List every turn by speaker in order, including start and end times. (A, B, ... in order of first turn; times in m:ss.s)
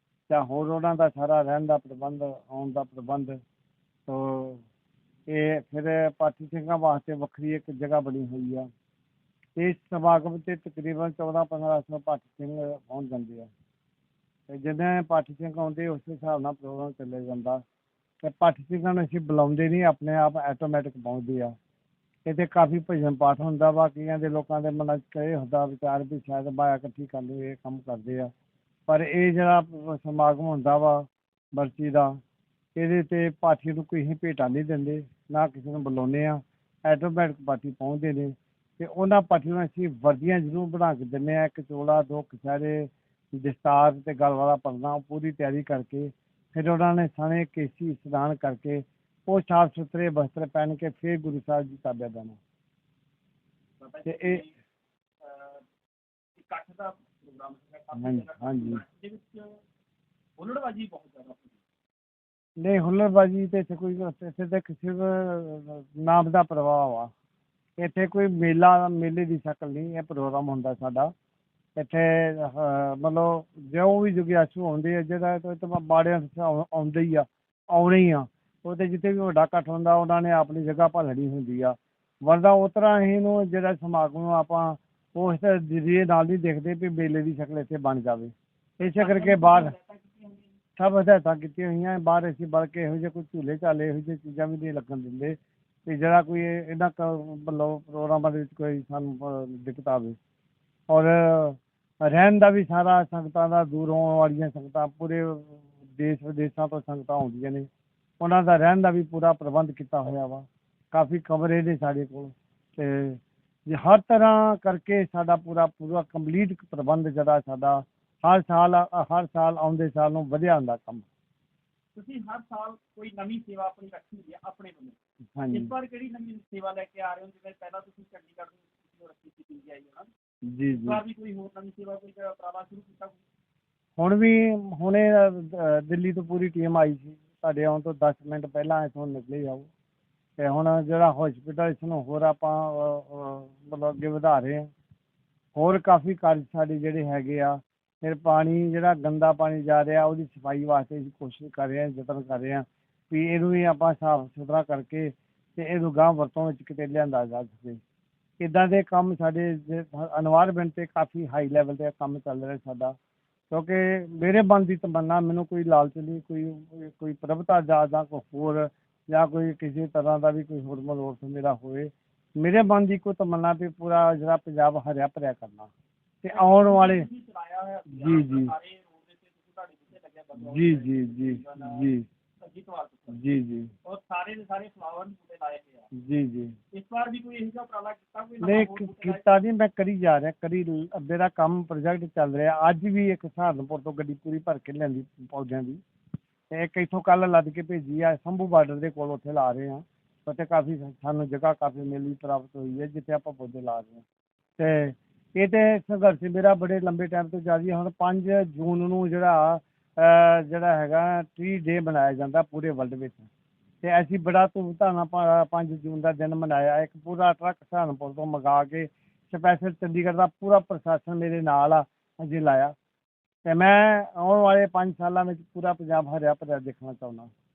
0:00.3-0:03.4 A
0:04.1-0:04.6 A
0:05.3-0:08.7 A
0:09.6-0:13.5 A
0:14.5-0:17.6 A
0:18.2-0:21.5 A
0:22.3-0:28.3 A
0:28.9-0:32.2 A
0:32.8-0:52.4 A
0:53.8-0:54.6 B
0:54.0-0:54.4 A
0:55.2-0:55.6 B
0:56.4-0:59.6 B
0:57.9-0:58.8 A
1:00.4-1:01.6 B
1:02.6-1:07.1 A
1:07.8-1:11.1 A
1:11.8-1:29.7 A
1:29.0-1:30.6 B
1:30.8-1:40.2 A
1:40.9-1:47.7 A
1:48.2-2:01.1 A
2:02.0-2:05.0 B
2:05.4-2:05.7 A
2:05.5-2:10.1 B
2:10.5-2:11.0 A
2:10.7-2:13.2 B
2:14.0-2:19.7 A
2:20.4-2:24.7 A
2:25.6-2:37.8 A
2:38.4-2:43.0 A
2:43.5-2:55.7 A
2:56.2-2:57.1 A
2:56.3-3:05.9 B
2:57.9-2:58.5 A
3:00.4-3:02.0 A
3:03.1-3:03.7 A
3:06.0-3:06.6 A
3:06.7-3:09.4 B
3:08.4-3:15.8 A
3:16.5-3:24.0 A
3:24.6-3:33.3 A
3:33.8-3:42.7 A
3:43.4-3:47.3 A